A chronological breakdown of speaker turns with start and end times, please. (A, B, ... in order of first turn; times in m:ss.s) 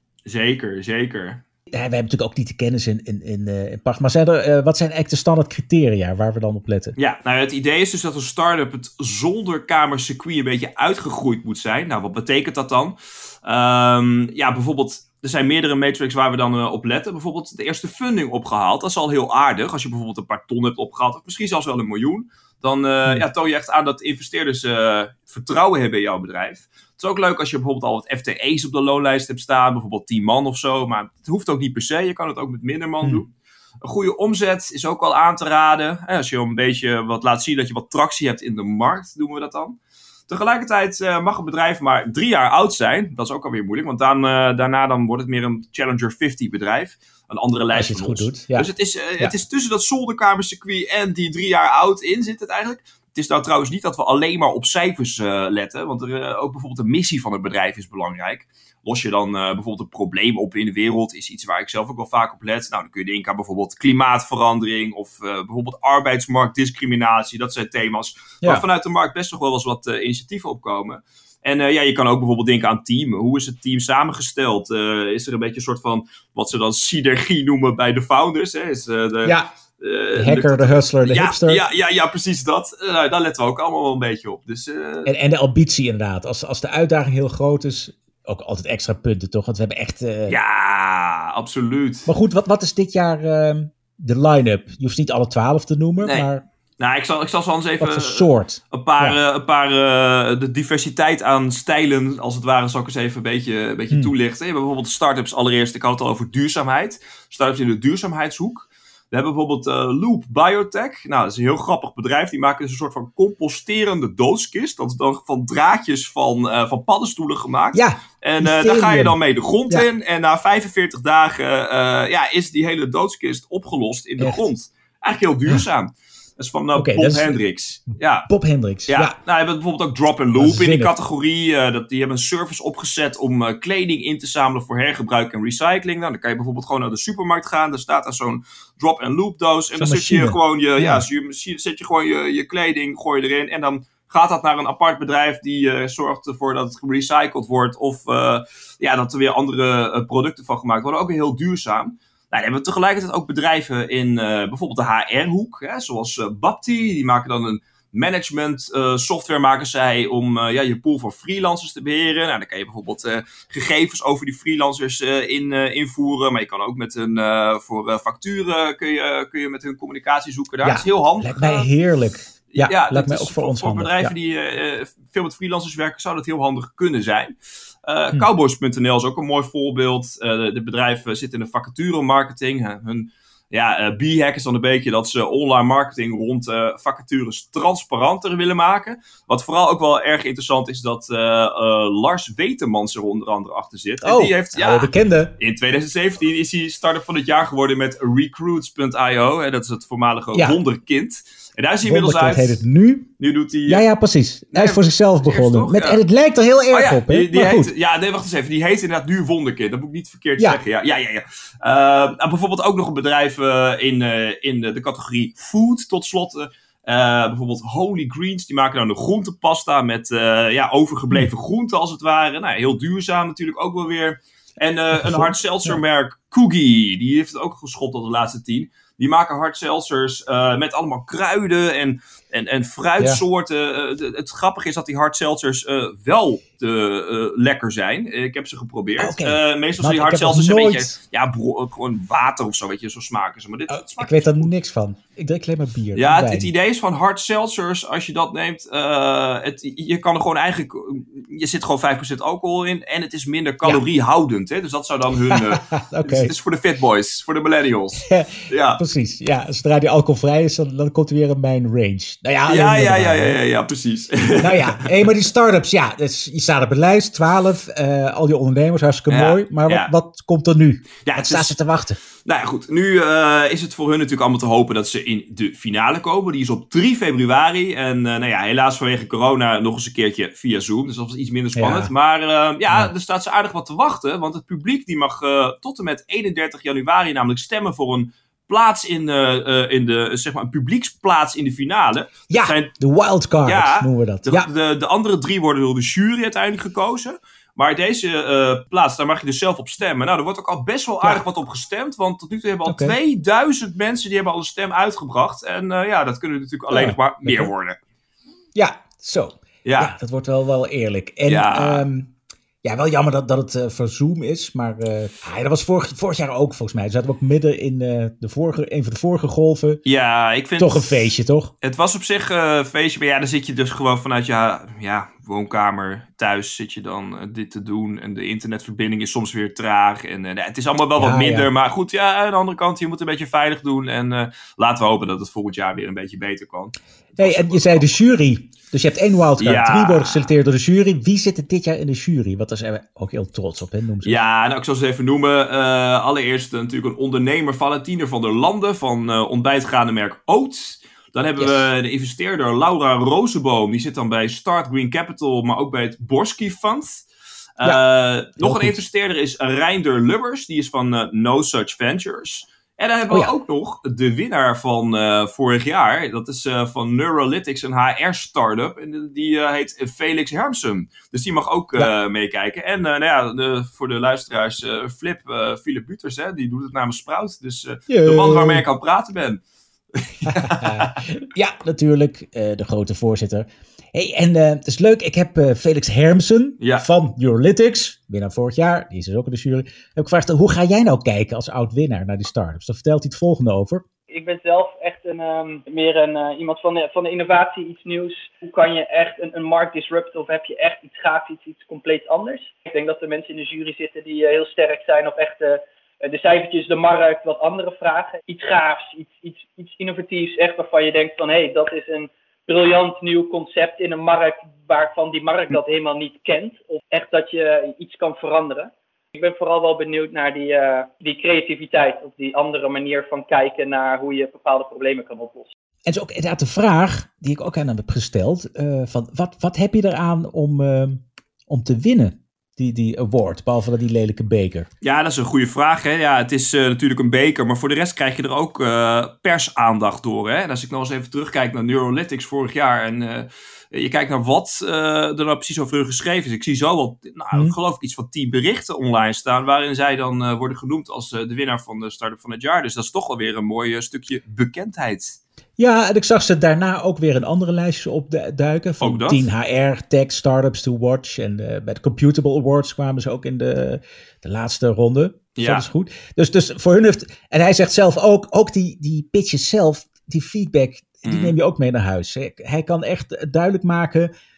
0:00.2-0:01.4 A
0:01.7-0:07.0 B
0:07.0-0:33.3 A
0:33.8-0:39.8 A
0:40.3-1:25.1 A
0:47.7-0:49.3 B
1:19.2-1:19.5 B
1:20.2-1:21.6 B
1:25.0-1:30.4 B
1:30.3-1:32.1 A
1:32.1-1:36.4 B
1:36.0-1:36.3 A
1:36.8-2:08.3 A
1:37.8-1:39.2 B
1:57.7-1:59.2 B
2:06.8-2:07.3 B
2:08.2-2:09.2 B
2:08.9-2:51.7 A
2:10.4-2:10.9 B
2:19.7-2:21.0 B
2:50.6-2:54.1 B
2:52.5-3:22.6 A
3:14.0-3:15.3 B
3:20.3-3:20.6 B
3:21.8-3:23.1 B
3:23.2-3:23.8 A
3:23.7-3:27.7 B
3:24.5-3:26.0 A
3:26.7-4:04.5 A
3:44.9-3:45.8 B
3:59.0-4:01.0 B
4:03.7-4:06.5 B
4:06.0-4:18.8 A
4:15.3-4:16.3 B
4:18.0-4:23.4 B
4:22.5-4:25.0 A
4:24.4-4:32.0 B
4:29.1-4:29.9 A
4:31.0-4:31.6 A
4:32.2-4:52.7 A
4:41.6-4:41.9 B
4:52.3-4:54.5 B
4:53.4-5:07.8 A
5:02.6-5:03.0 B
5:06.7-5:07.5 B
5:08.5-5:19.8 B
5:09.6-5:09.9 A
5:11.3-5:11.8 A
5:19.8-5:21.1 A
5:20.6-5:21.5 B
5:21.6-5:37.9 A
5:31.0-5:31.5 B
5:37.2-5:44.2 B
5:39.4-5:40.3 A
5:44.0-5:57.0 A
5:51.4-5:51.6 B
5:57.6-6:19.4 A
5:58.4-5:58.8 B
6:17.9-6:18.6 B
6:19.9-6:21.0 A
6:20.3-6:33.8 B
6:26.6-6:26.9 A
6:34.1-7:05.5 C
7:05.9-7:14.7 B
7:14.8-7:35.2 A
7:35.6-7:54.1 B
7:38.8-7:39.3 A
7:45.4-7:45.7 A
7:51.0-7:51.3 A